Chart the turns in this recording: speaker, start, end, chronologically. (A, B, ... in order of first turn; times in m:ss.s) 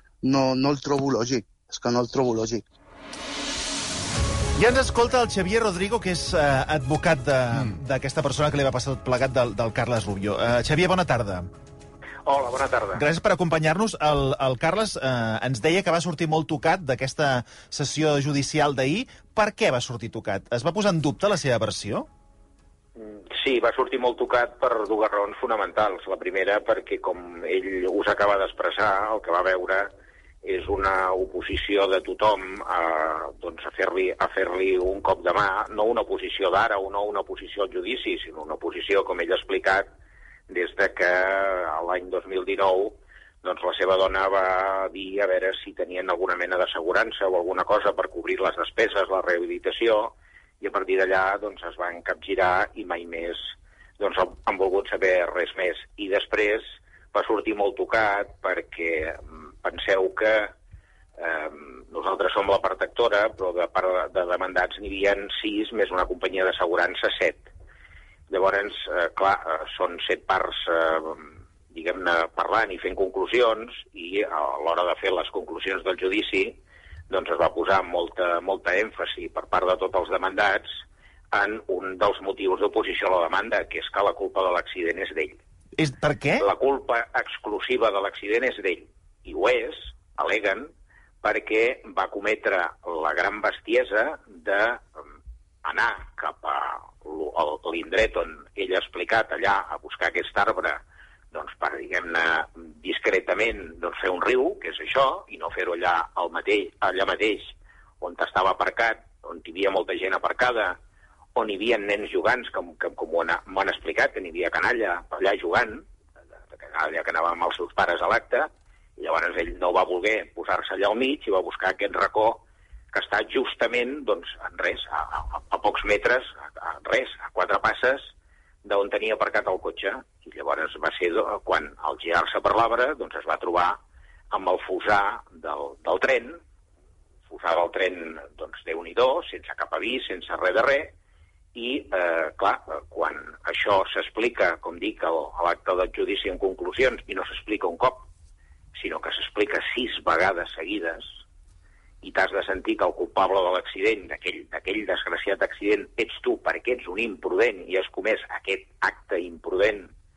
0:00.2-0:02.6 A
0:04.6-0:11.5 B
0:12.2-0:13.0 C
0:12.9-0:22.1 B
0:23.0-0:29.9 C
0:30.4-0:39.9 C
0:40.5-1:00.5 C
1:01.2-1:07.4 C
1:08.3-1:16.6 C
1:17.1-1:20.7 C
1:21.3-1:25.4 C
1:25.8-1:26.4 B
1:26.4-1:30.7 C
1:31.2-1:34.9 C
1:35.6-1:40.8 C
1:41.3-1:50.8 C
1:51.4-1:55.8 C
1:56.5-2:08.1 C
2:08.6-2:13.8 C
2:14.3-2:16.4 C
2:17.3-2:20.9 C
2:21.5-2:28.1 C
2:28.7-2:31.1 C
2:32.0-2:39.9 C